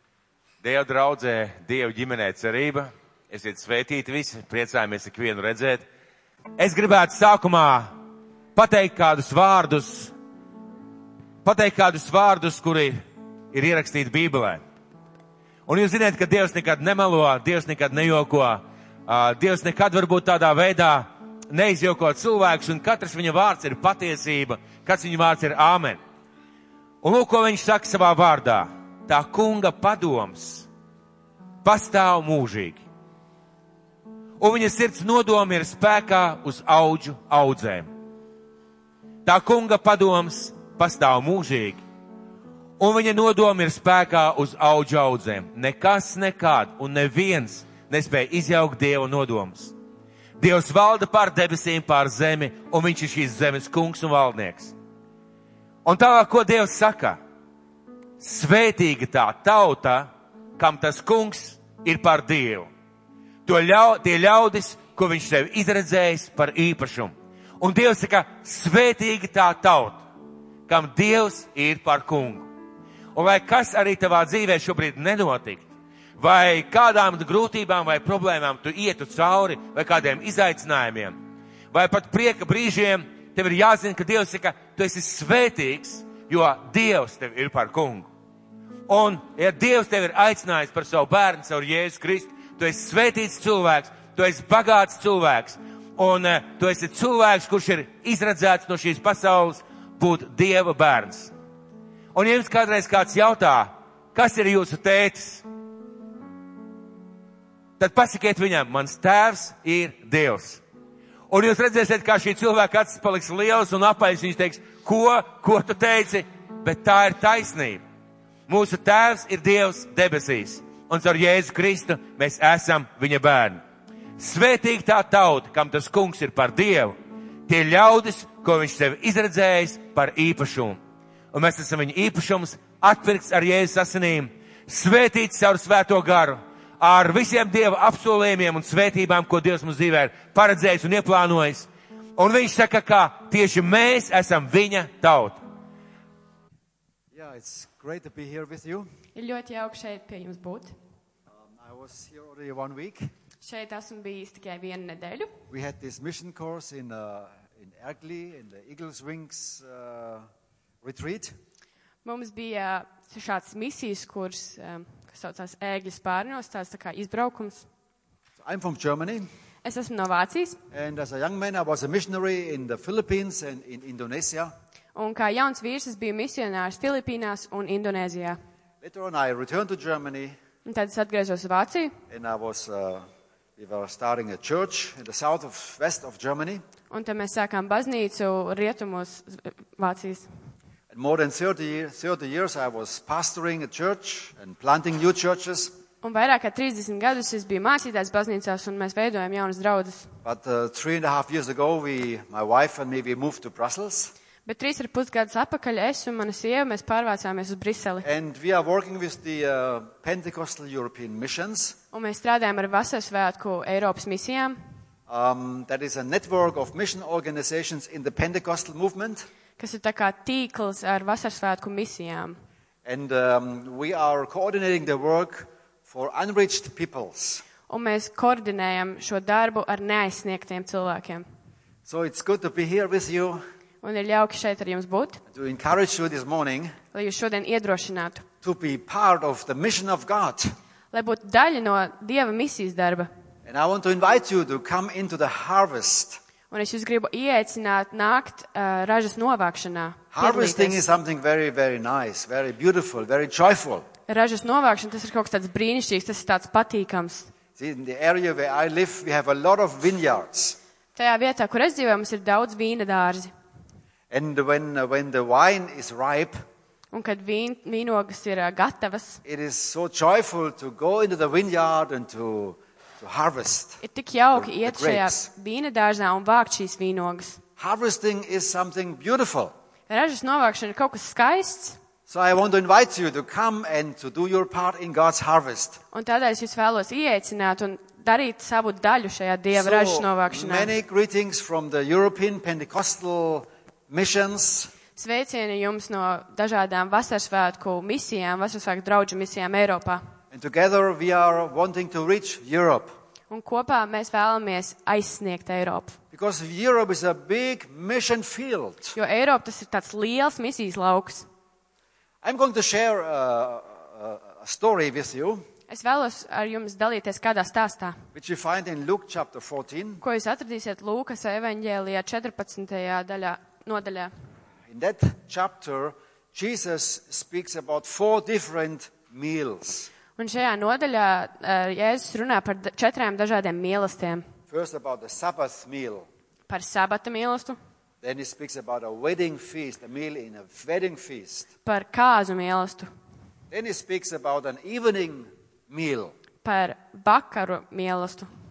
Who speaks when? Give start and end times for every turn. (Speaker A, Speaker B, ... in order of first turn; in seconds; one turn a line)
Speaker A: 0.6-5.8
Speaker A: 6.6-7.9
Speaker A: 8.6-10.1
Speaker A: 11.4-13.0
Speaker A: 13.5-14.6
Speaker A: 15.7-26.0
Speaker A: 27.0-30.7
Speaker A: 31.6-32.8
Speaker A: 34.4-37.9
Speaker A: 39.2-41.8
Speaker A: 42.8-49.7
Speaker A: 50.4-54.7
Speaker A: 55.9-57.2
Speaker A: 58.2-62.7
Speaker A: 63.5-70.0
Speaker A: 70.7-72.5
Speaker A: 73.2-81.2
Speaker A: 81.7-88.1
Speaker A: 88.9-101.3
Speaker A: 102.1-105.4
Speaker A: 107.8-110.6
Speaker A: 111.3-117.8
Speaker A: 118.5-123.6
Speaker A: 124.2-127.0
Speaker A: 127.5-130.8
Speaker A: 131.3-145.4
Speaker B: 147.1-148.9
Speaker C: 149.2-150.7
Speaker B: 151.4-153.1
Speaker C: 153.4-155.4
Speaker B: 155.5-160.3
Speaker B: 160.8-161.4
Speaker C: 162.0-167.7
Speaker B: 168.4-169.3
Speaker C: 169.6-170.6
Speaker B: 170.7-174.5
Speaker C: 174.9-178.4
Speaker B: 178.8-180.4
Speaker C: 180.7-182.0
Speaker B: 182.1-183.1
Speaker B: 183.6-186.6
Speaker C: 186.9-190.3
Speaker B: 190.9-195.7
Speaker C: 196.0-200.1
Speaker B: 200.2-204.1
Speaker C: 204.5-208.1
Speaker B: 208.0-211.8
Speaker C: 211.9-214.6
Speaker B: 215.1-219.3
Speaker C: 219.6-222.4
Speaker B: 222.8-227.4
Speaker C: 227.7-231.3
Speaker B: 231.9-233.4
Speaker C: 233.8-235.2
Speaker B: 235.3-236.8
Speaker C: 236.9-238.2
Speaker B: 238.4-240.5
Speaker C: 240.9-243.1
Speaker B: 243.5-246.2
Speaker C: 246.5-250.8
Speaker B: 250.1-253.9
Speaker C: 254.1-257.3
Speaker B: 257.6-260.6
Speaker C: 261.0-263.3
Speaker B: 264.1-266.4
Speaker C: 266.9-269.2
Speaker B: 269.2-273.8
Speaker C: 273.8-277.4
Speaker B: 274.3-275.3
Speaker B: 277.6-279.5
Speaker C: 279.9-281.8
Speaker B: 282.1-285.8
Speaker C: 285.9-290.7
Speaker B: 289.5-294.7
Speaker C: 295.0-300.0
Speaker B: 300.3-302.9
Speaker C: 303.3-306.0
Speaker B: 306.1-309.0
Speaker C: 309.0-311.3
Speaker B: 312.2-315.4
Speaker C: 315.7-318.0
Speaker B: 318.1-320.0
Speaker C: 320.0-324.1
Speaker B: 324.7-329.9
Speaker C: 330.2-334.3
Speaker B: 334.5-336.1
Speaker C: 336.5-337.6
Speaker B: 338.0-341.5
Speaker C: 341.7-342.9
Speaker B: 343.5-346.1
Speaker C: 346.4-348.3